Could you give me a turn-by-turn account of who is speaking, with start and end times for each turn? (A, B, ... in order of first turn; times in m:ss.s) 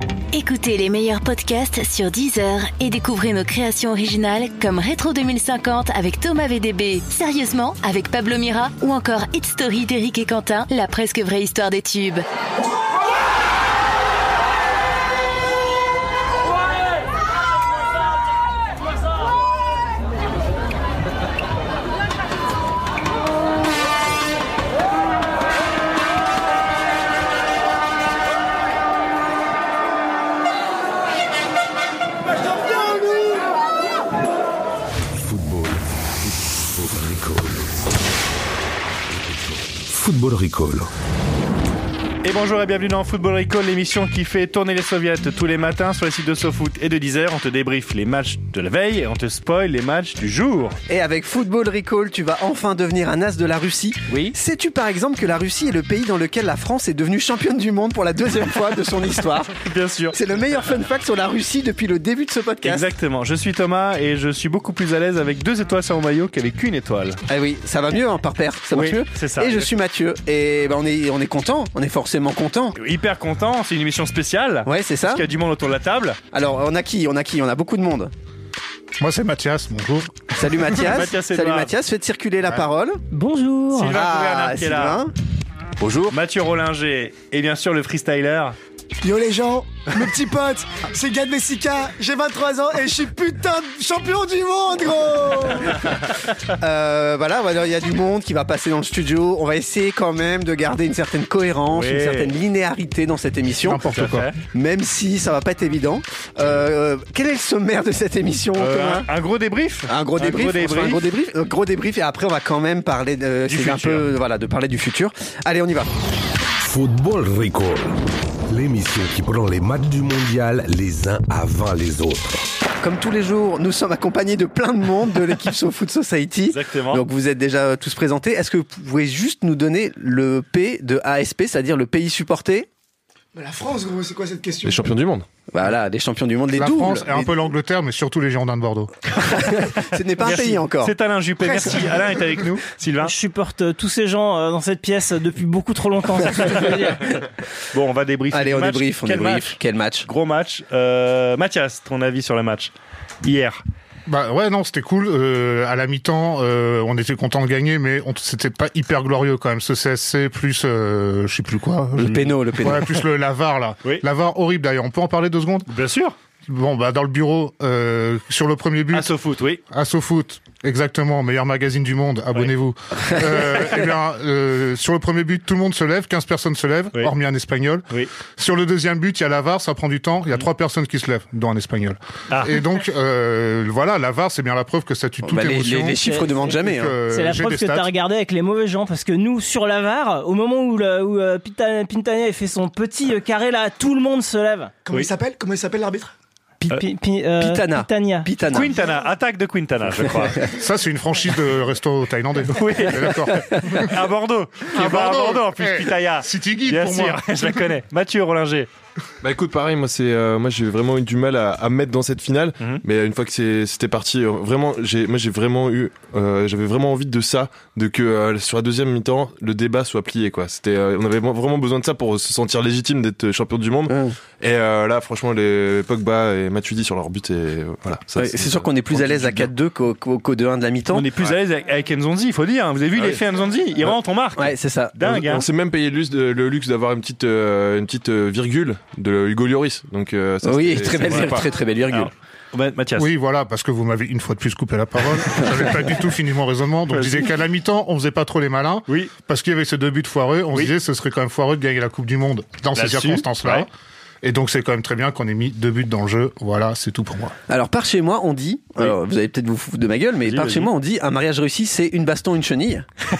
0:00.3-0:12.2 A
0:35.1-0:37.9 B
0:39.1-0:40.9 B
0:42.2-0:50.8 C
0:50.9-0:59.5 D
0:54.1-0:54.3 C
0:59.6-1:00.2 C
1:00.1-1:02.9 D
1:02.6-1:07.2 C
1:07.3-1:12.8 D
1:08.7-1:09.7 C
1:12.8-1:16.2 C
1:14.6-1:15.2 D
1:16.3-1:18.1 D
1:19.0-1:20.3 E
1:20.3-1:23.0 D
1:20.7-1:21.7 C
1:23.1-1:23.9 F
1:23.7-1:25.0 C
1:23.9-1:25.1 D
1:25.8-1:26.2 D
1:26.1-1:28.6 C
1:29.0-1:35.9 G
1:36.6-1:43.8 D
1:41.7-1:42.3 C
1:43.7-1:44.3 E
1:43.8-1:44.4 C
1:44.5-1:49.1 D
1:48.6-1:51.0 C
1:49.9-1:55.9 D
1:53.5-1:54.1 C
1:56.6-2:02.4 B
2:02.8-2:12.7 D
2:06.5-2:07.0 C
2:13.3-2:14.9 G
2:14.6-2:15.2 H
2:15.5-2:17.3 D
2:16.5-2:18.9 E
2:19.2-2:20.9 D
2:20.2-2:23.1 C
2:21.4-2:22.2 G
2:23.0-2:27.2 F
2:27.7-2:33.6 C
2:28.3-2:30.1 D
2:34.0-2:45.7 E
2:42.0-2:43.0 D
2:45.7-2:46.1 C
2:46.5-2:49.1 E
2:48.9-2:49.6 C
2:49.7-3:06.0 E
3:02.3-3:02.6 C
3:05.2-3:07.0 D
3:06.0-3:14.7 F
3:06.6-3:07.9 E
3:14.8-3:16.1 G
3:16.7-3:18.3 F
3:17.4-3:18.8 D
3:18.5-3:20.4 C
3:20.4-3:23.9 E
3:22.5-3:28.7 C
3:24.7-3:27.6 E
3:29.2-3:49.5 H
3:43.9-3:44.2 D
3:48.2-3:51.1 D
3:50.9-3:55.4 C
3:54.4-3:55.5 D
3:55.3-4:01.4 H
4:00.4-4:02.1 D
4:01.0-4:03.1 C
4:03.0-4:13.7 E
4:06.9-4:07.3 C
4:12.7-4:13.7 C
4:14.2-4:17.3 E
4:17.5-4:22.8 D
4:20.2-4:20.7 C